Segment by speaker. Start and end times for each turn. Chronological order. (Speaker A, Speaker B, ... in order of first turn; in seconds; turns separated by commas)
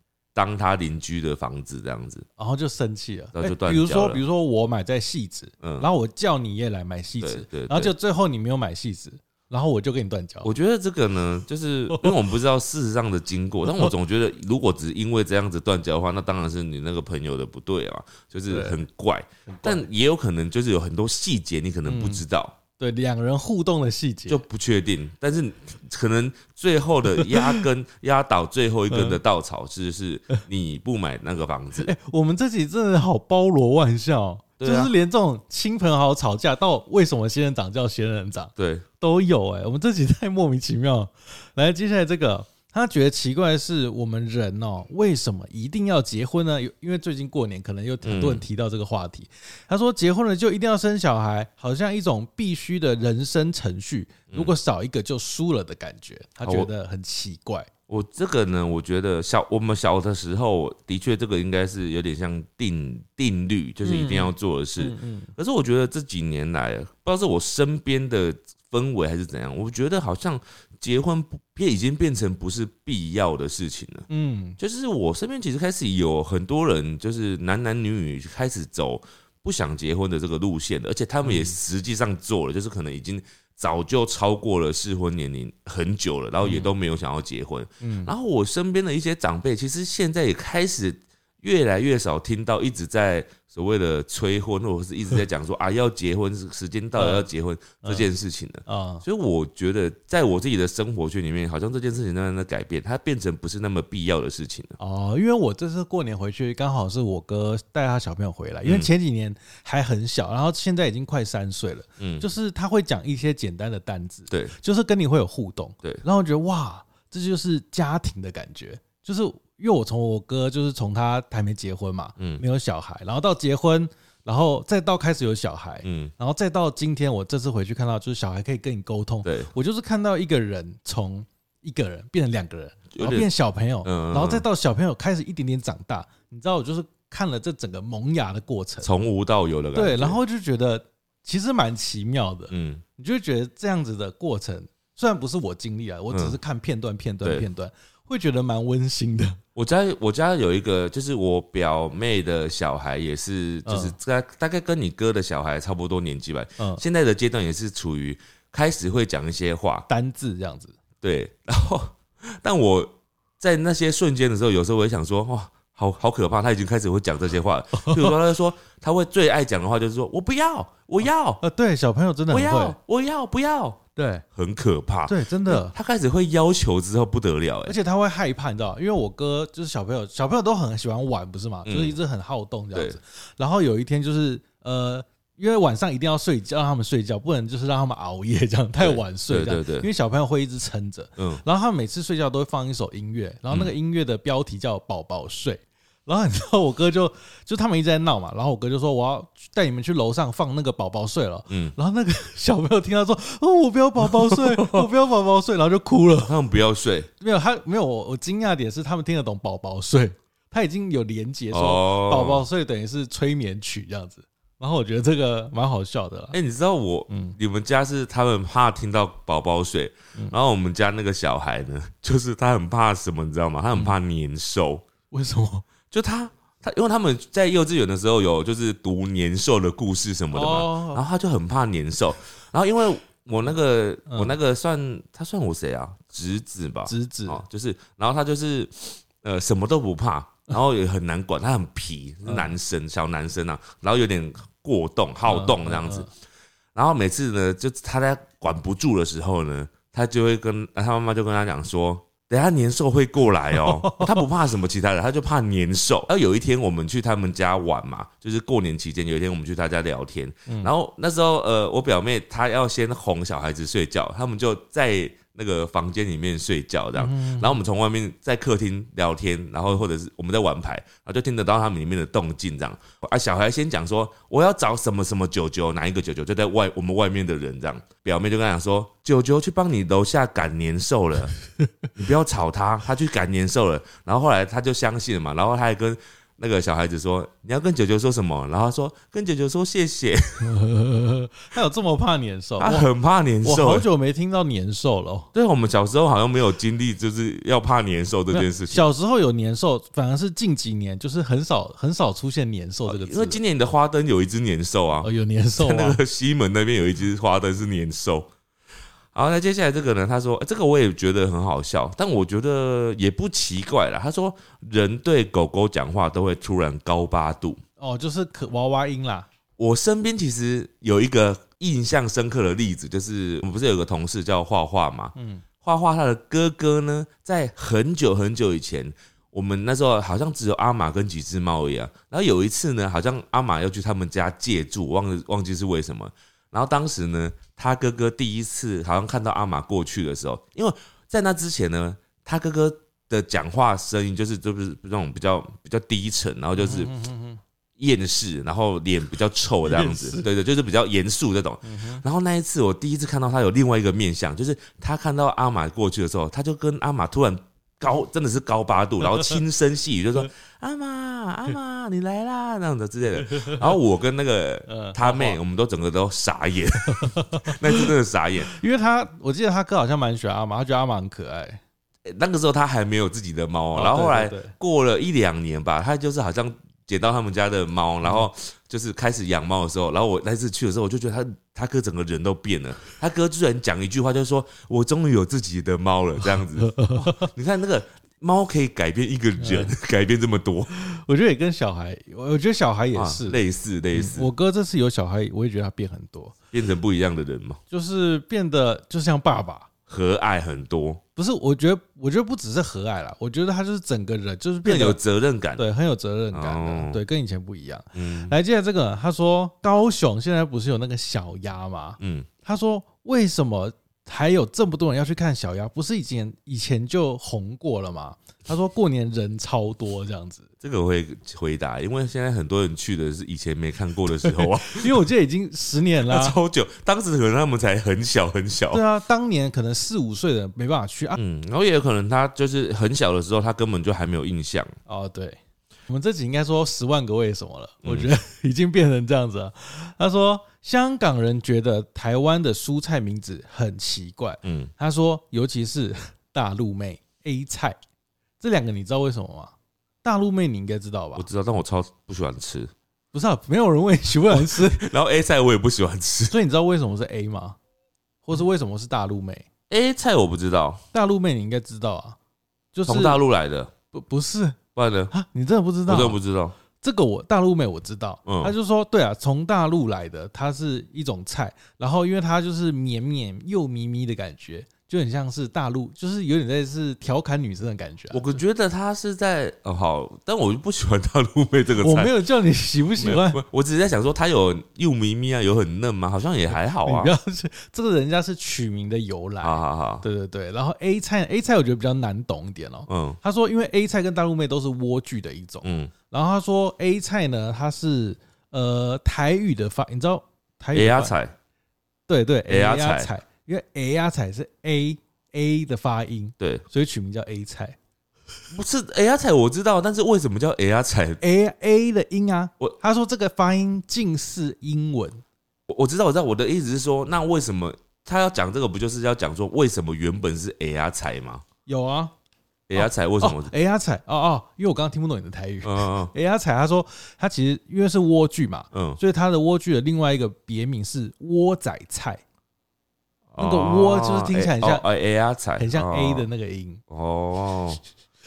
Speaker A: 0.3-2.3, Speaker B: 2.4-10.5, Speaker A: 3.3-4.2, Speaker A: 5.6-5.9, Speaker A: 7.2-7.9, Speaker A: 10.4-22.6, Speaker B: 18.5-18.8, Speaker B: 19.5-19.9, Speaker B: 21.9-22.2, Speaker B: 22.8-24.4, Speaker A: 24.3-31.9, Speaker B: 27.2-27.6, Speaker B: 28.9-29.2, Speaker B: 31.8-57.7, Speaker A: 34.6-34.9, Speaker A: 38.6-38.9, Speaker A: 48.0-48.4, Speaker A: 54.3-54.6, Speaker A: 56.4-56.7, Speaker A: 57.9-74.1, Speaker B: 63.8-65.3, Speaker B: 74.1-74.6, Speaker A: 74.6-104.8, Speaker B: 81.2-81.6, Speaker B: 86.4-86.7, Speaker B: 87.8-88.1, Speaker B: 97.0-97.3, Speaker B: 97.8-98.1, Speaker B: 98.7-99.0, Speaker B: 104.8-138.9, Speaker A: 112.0-112.2, Speaker A: 114.3-114.5, Speaker A: 125.8-126.1, Speaker A: 129.2-129.5, Speaker A: 132.9-133.3, Speaker A: 133.8-134.4, Speaker A: 138.8-140.2, Speaker B: 139.8-149.4, Speaker A: 142.5-142.8, Speaker A: 146.1-146.4, Speaker A: 149.6-159.9, Speaker B: 153.7-153.9, Speaker B: 159.9-160.8, Speaker A: 161.0-171.4, Speaker B: 167.7-168.2, Speaker B: 171.4-172.8, Speaker A: 172.3-173.8, Speaker B: 174.0-174.2, Speaker A: 174.3-177.8, Speaker B: 175.1-175.8, Speaker B: 177.7-206.4, Speaker A: 181.7-182.0, Speaker A: 188.8-189.9, Speaker A: 191.2-191.4, Speaker A: 201.5-201.8, Speaker A: 204.0-204.9, Speaker A: 206.3-207.1, Speaker B: 207.2-216.4, Speaker A: 211.5-212.4, Speaker A: 216.3-224.9, Speaker B: 217.1-217.4, Speaker B: 225.1-225.7, Speaker A: 225.9-246.1, Speaker B: 230.3-231.0, Speaker B: 234.1-234.4, Speaker B: 236.9-237.4, Speaker B: 242.3-242.5, Speaker B: 245.3-246.1, Speaker A: 246.8-281.3, Speaker B: 253.5-254.2, Speaker B: 267.0-267.6, Speaker A: 282.0-290.6, Speaker B: 290.4-292.9, Speaker A: 292.6-293.9, Speaker B: 293.4-295.3, Speaker A: 295.3-298.9, Speaker B: 298.3-303.4, Speaker A: 302.9-308.3, Speaker B: 305.0-306.0, Speaker A: 309.1-317.6, Speaker B: 317.8-319.3, Speaker A: 319.6-346.9, Speaker B: 325.1-325.4, Speaker B: 346.6-347.4, Speaker A: 347.8-368.5, Speaker B: 349.6-350.3, Speaker B: 351.6-352.0, Speaker B: 363.2-363.7, Speaker B: 364.7-365.4, Speaker B: 366.8-367.9, Speaker B: 368.4-371.6, Speaker A: 372.1-390.7, Speaker B: 373.7-374.6, Speaker B: 386.3-387.3, Speaker B: 389.4-389.7, Speaker B: 390.7-393.4, Speaker A: 392.9-394.3, Speaker B: 393.9-396.4, Speaker A: 396.5-397.6, Speaker B: 397.7-399.7, Speaker A: 399.9-401.0, Speaker B: 401.2-405.0, Speaker A: 404.6-405.6, Speaker B: 405.6-420.5, Speaker A: 406.3-407.0, Speaker A: 407.9-408.3, Speaker A: 412.0-412.3, Speaker A: 420.6-425.0, Speaker B: 424.2-426.4, Speaker A: 426.1-428.8, Speaker B: 428.7-431.2, Speaker A: 431.2-434.8, Speaker B: 434.9-447.8, Speaker A: 437.8-438.1, Speaker A: 444.4-444.7, Speaker B: 448.4-451.3, Speaker A: 451.2-452.7, Speaker B: 453.1-454.9, Speaker A: 454.3-456.4, Speaker B: 456.3-457.6, Speaker B: 458.2-459.5, Speaker A: 459.7-460.8, Speaker B: 460.9-462.2, Speaker B: 462.7-463.2, Speaker A: 462.9-463.7, Speaker B: 463.9-464.6, Speaker A: 464.8-465.1, Speaker B: 465.1-466.2, Speaker A: 465.9-466.6, Speaker B: 466.8-478.2, Speaker A: 468.3-468.6, Speaker A: 478.1-482.1, Speaker B: 481.8-483.4, Speaker A: 483.0-487.1, Speaker B: 486.8-501.1, Speaker A: 489.4-490.1, Speaker A: 492.9-493.2, Speaker A: 495.6-495.9, Speaker A: 500.7-501.4, Speaker B: 502.1-507.8, Speaker A: 502.5-503.1, Speaker A: 508.5-511.2, Speaker B: 511.2-515.2, Speaker A: 515.7-521.4, Speaker B: 521.7-522.1, Speaker A: 522.7-523.5, Speaker B: 522.8-532.2, Speaker A: 525.6-526.1, Speaker A: 528.7-529.0, Speaker A: 533.3-536.3, Speaker B: 533.4-534.9, Speaker B: 535.6-536.8, Speaker A: 536.9-537.8